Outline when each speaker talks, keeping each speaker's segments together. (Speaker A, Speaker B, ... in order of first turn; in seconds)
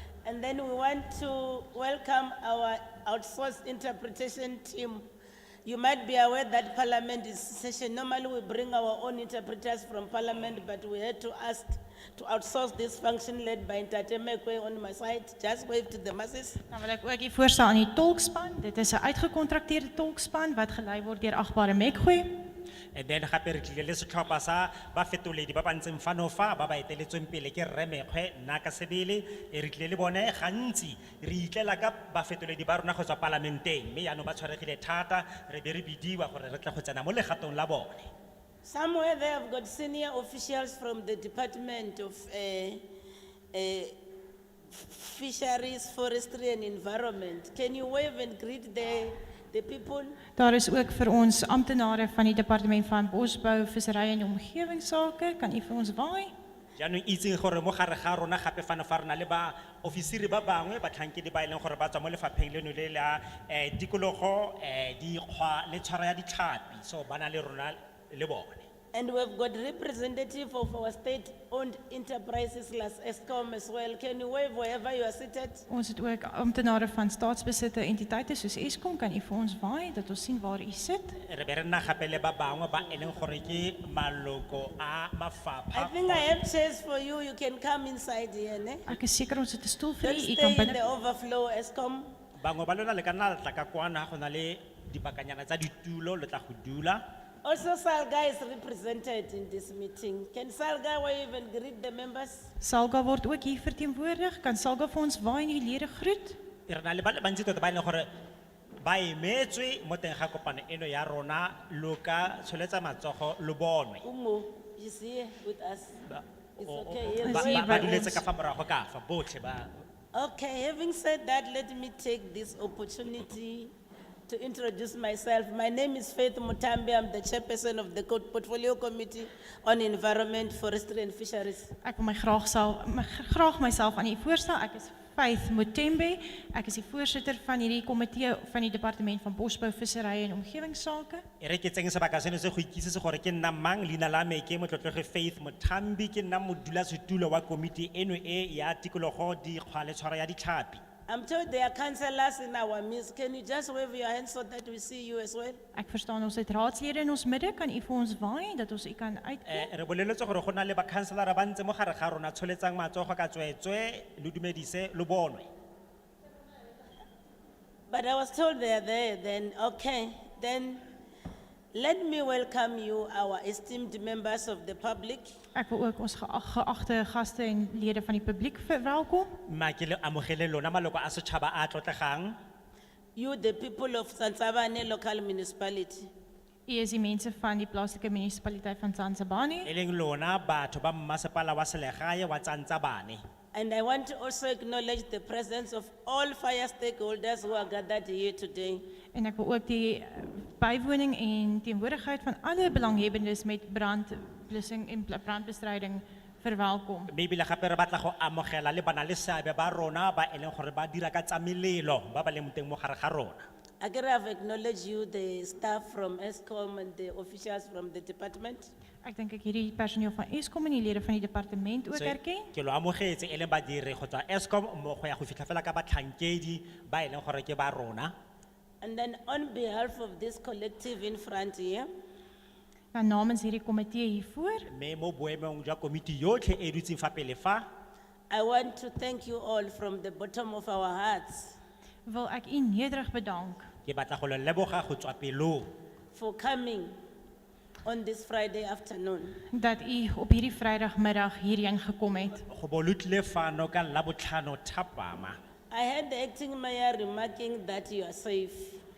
Speaker A: 0.2-5.0, 5.6-16.6, 38.6-42.8, 43.5-44.0, 44.7-50.2, 68.9-75.7, 85.7-88.9, 90.0-92.1, 97.4-102.5, 114.0-116.0, 116.6-118.0, 120.1-123.7, 124.3-131.7, 151.1-155.6, 167.9-170.8, 171.7-175.3, 183.2-186.1, 193.5-198.8, 213.8-218.7, 228.8-231.9, 238.3-241.6, 246.1-246.9, 247.8-249.4, 255.7-258.8
Speaker B: 16.7-22.3, 50.4-56.3, 75.7-81.2, 88.9-90.8, 102.6-106.4, 117.2-118.2, 131.8-141.2, 155.7-159.7, 175.5-179.3, 186.7-189.7, 199.1-207.1, 219.0-222.5, 232.9-234.7, 242.1-243.7, 249.5-252.4
Speaker C: 22.9-38.1, 56.8-68.7, 81.2-86.3, 92.4-97.0, 106.7-108.1, 108.8-114.0, 116.2-119.7, 141.4-150.8, 159.4-165.5, 179.5-182.4, 189.6-193.2, 207.1-213.5, 221.9-228.1, 234.7-237.7, 243.8-245.7, 252.5-255.4